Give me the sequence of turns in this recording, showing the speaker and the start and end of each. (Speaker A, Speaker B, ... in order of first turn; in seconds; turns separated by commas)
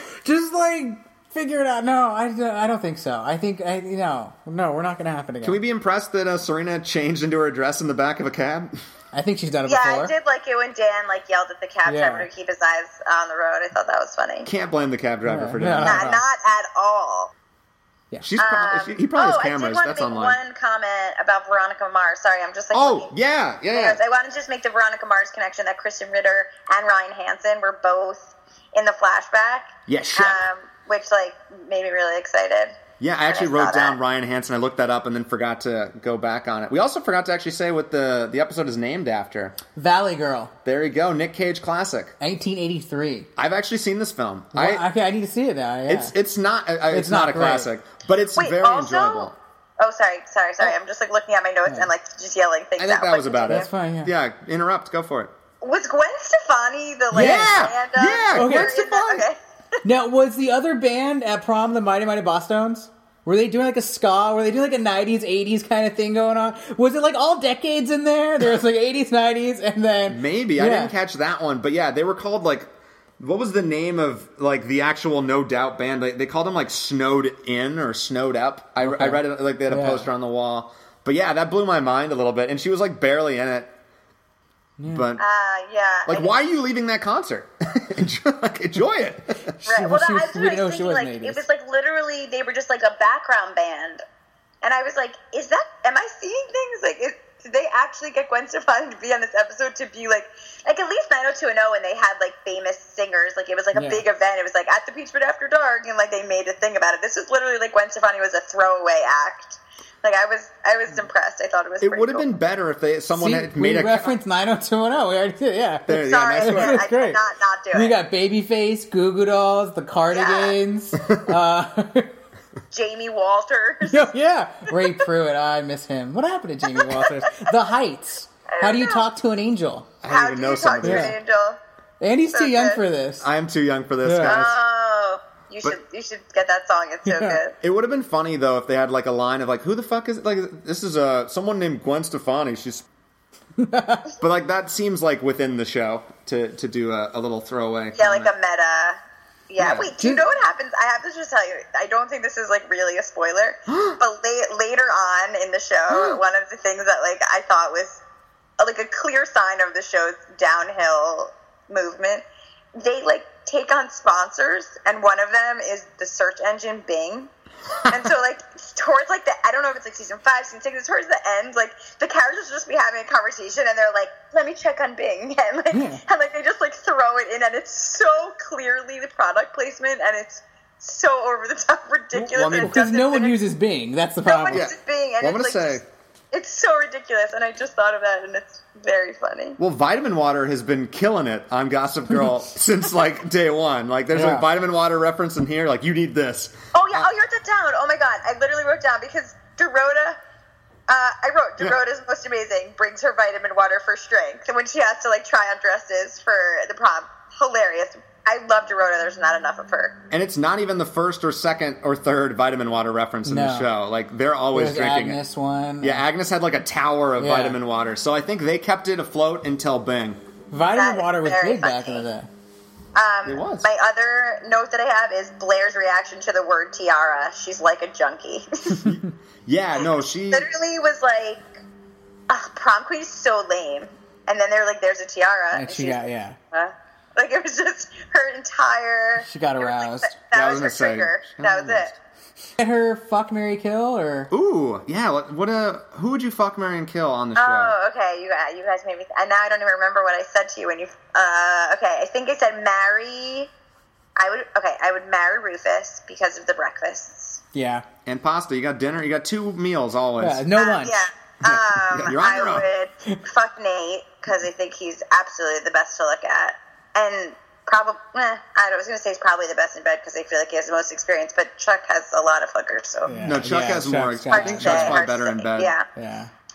Speaker A: 0.2-5.6, Speaker B: 5.4-8.7, Speaker A: 9.1-10.1, Speaker C: 9.7-14.5, Speaker A: 11.8-12.3, Speaker B: 14.4-16.1, Speaker A: 15.2-16.2, Speaker C: 15.8-17.3, Speaker B: 18.2-20.4, Speaker C: 18.4-23.1, Speaker B: 22.7-24.0, Speaker C: 23.7-32.8, Speaker B: 29.9-30.4, Speaker B: 33.0-39.6, Speaker C: 33.3-34.0, Speaker A: 39.8-40.5, Speaker B: 40.6-42.1, Speaker A: 42.2-43.3, Speaker B: 43.4-44.8, Speaker A: 44.5-46.1, Speaker B: 45.9-49.3, Speaker A: 46.9-47.7, Speaker C: 48.4-53.7, Speaker B: 52.8-55.3, Speaker A: 53.5-54.1, Speaker C: 55.6-59.4, Speaker B: 57.1-59.2, Speaker A: 57.1-57.7, Speaker A: 58.3-58.7, Speaker A: 59.8-70.9, Speaker B: 70.1-83.7, Speaker A: 78.8-80.1, Speaker A: 84.8-85.0, Speaker B: 84.9-85.2, Speaker C: 85.2-86.3, Speaker B: 86.1-89.5, Speaker A: 89.6-91.4, Speaker C: 89.7-94.0, Speaker C: 94.6-112.3, Speaker A: 103.7-104.0, Speaker B: 111.8-114.1, Speaker A: 113.1-117.2, Speaker B: 115.9-116.8, Speaker C: 116.0-118.0, Speaker A: 117.7-122.1, Speaker C: 120.1-120.6, Speaker C: 122.7-124.1, Speaker A: 123.9-129.9, Speaker C: 126.7-127.5, Speaker C: 128.5-129.1, Speaker B: 130.0-131.2, Speaker C: 130.1-131.6, Speaker A: 130.8-131.1, Speaker A: 132.0-133.3, Speaker C: 132.3-132.8, Speaker B: 133.2-134.6, Speaker A: 134.0-134.4, Speaker C: 134.2-137.6, Speaker A: 137.0-137.4, Speaker B: 137.6-142.8, Speaker A: 143.6-144.1, Speaker B: 144.2-148.3, Speaker C: 147.9-158.0, Speaker B: 149.6-149.9, Speaker A: 150.0-150.2, Speaker B: 153.7-154.0, Speaker B: 155.9-156.2, Speaker C: 158.6-162.2, Speaker C: 162.8-167.3, Speaker C: 167.9-183.4, Speaker A: 175.7-176.0, Speaker B: 182.2-182.8, Speaker A: 182.5-184.6, Speaker C: 184.2-185.8, Speaker B: 184.5-185.8, Speaker C: 186.3-189.6, Speaker B: 189.6-197.1, Speaker A: 194.1-194.5, Speaker C: 196.7-200.2, Speaker C: 200.9-209.9, Speaker B: 210.1-215.2, Speaker A: 213.2-213.7, Speaker A: 214.5-216.0, Speaker B: 215.8-220.2, Speaker A: 217.2-217.6, Speaker A: 220.5-222.3, Speaker C: 220.7-222.1, Speaker C: 222.9-228.9, Speaker B: 223.2-223.7, Speaker B: 228.8-230.5, Speaker C: 229.8-231.5, Speaker C: 232.3-241.9, Speaker A: 235.5-236.4, Speaker A: 239.2-240.1, Speaker B: 240.3-241.9, Speaker A: 242.6-244.3, Speaker B: 244.3-247.8, Speaker C: 247.3-253.5, Speaker C: 254.2-257.4, Speaker A: 257.5-257.8, Speaker B: 258.1-260.4, Speaker A: 260.2-261.0, Speaker C: 260.6-273.2, Speaker B: 261.4-262.7, Speaker A: 273.0-275.0, Speaker B: 273.2-275.7, Speaker C: 274.3-275.9, Speaker A: 275.9-276.3